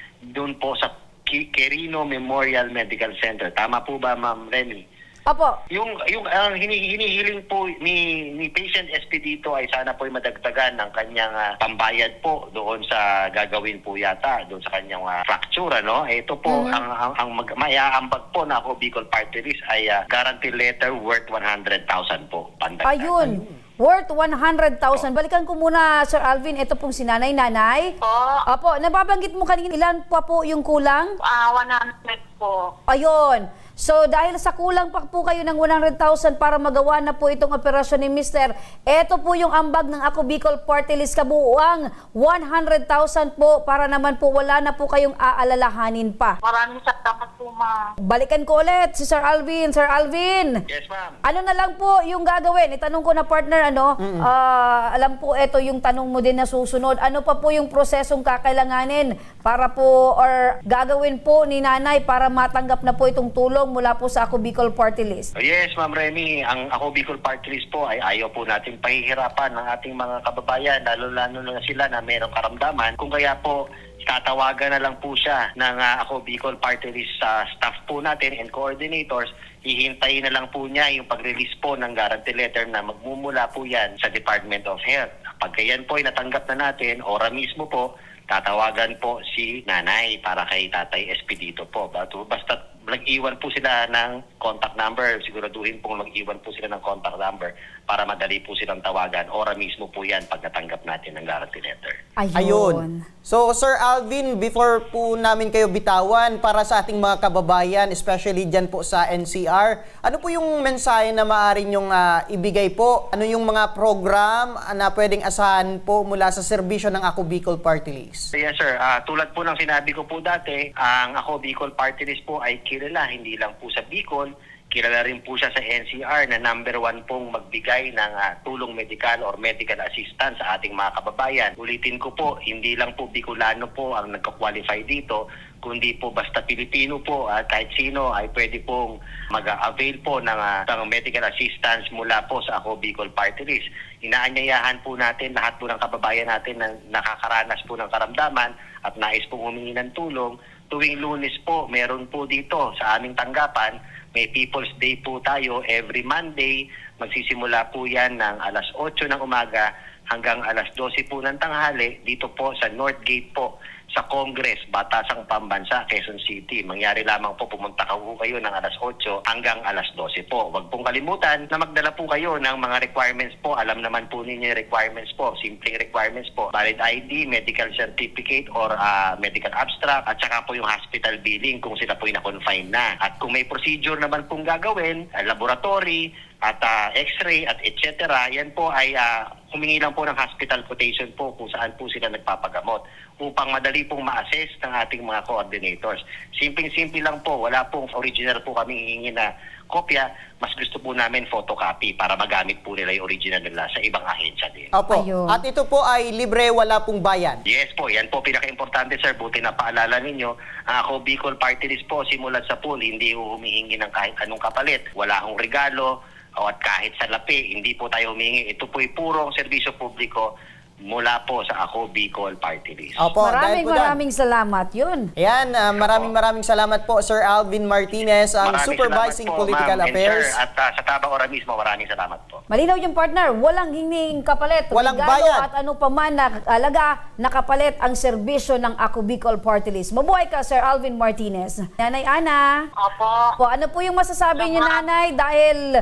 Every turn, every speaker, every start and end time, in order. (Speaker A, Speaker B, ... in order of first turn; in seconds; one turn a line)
Speaker A: 0.3-4.8
Speaker B: 5.3-5.6
Speaker A: 5.7-23.2
Speaker B: 16.5-16.8
Speaker B: 22.8-27.9
Speaker C: 23.2-23.6
Speaker D: 28.0-28.4
Speaker B: 28.5-31.1
Speaker D: 31.3-32.7
Speaker B: 32.9-46.4
Speaker D: 46.4-47.8
Speaker B: 48.0-50.6
Speaker A: 50.7-51.2
Speaker B: 51.2-65.3
Speaker C: 54.0-54.3
Speaker A: 65.4-102.0
Speaker B: 102.2-103.1
Speaker C: 102.3-118.3
Speaker A: 118.3-204.7
Speaker C: 204.7-207.4
Speaker B: 204.9-205.4
Speaker A: 207.5-220.3
Speaker A: 220.9-223.1
Speaker C: 223.0-224.0
Speaker B: 223.2-225.1
Speaker C: 225.2-230.4
Speaker A: 225.8-226.1
Speaker A: 228.4-232.4
Speaker B: 232.5-242.5
Speaker C: 234.7-235.5
Speaker D: 242.8-243.2
Speaker B: 243.4-245.6
Speaker D: 244.4-244.9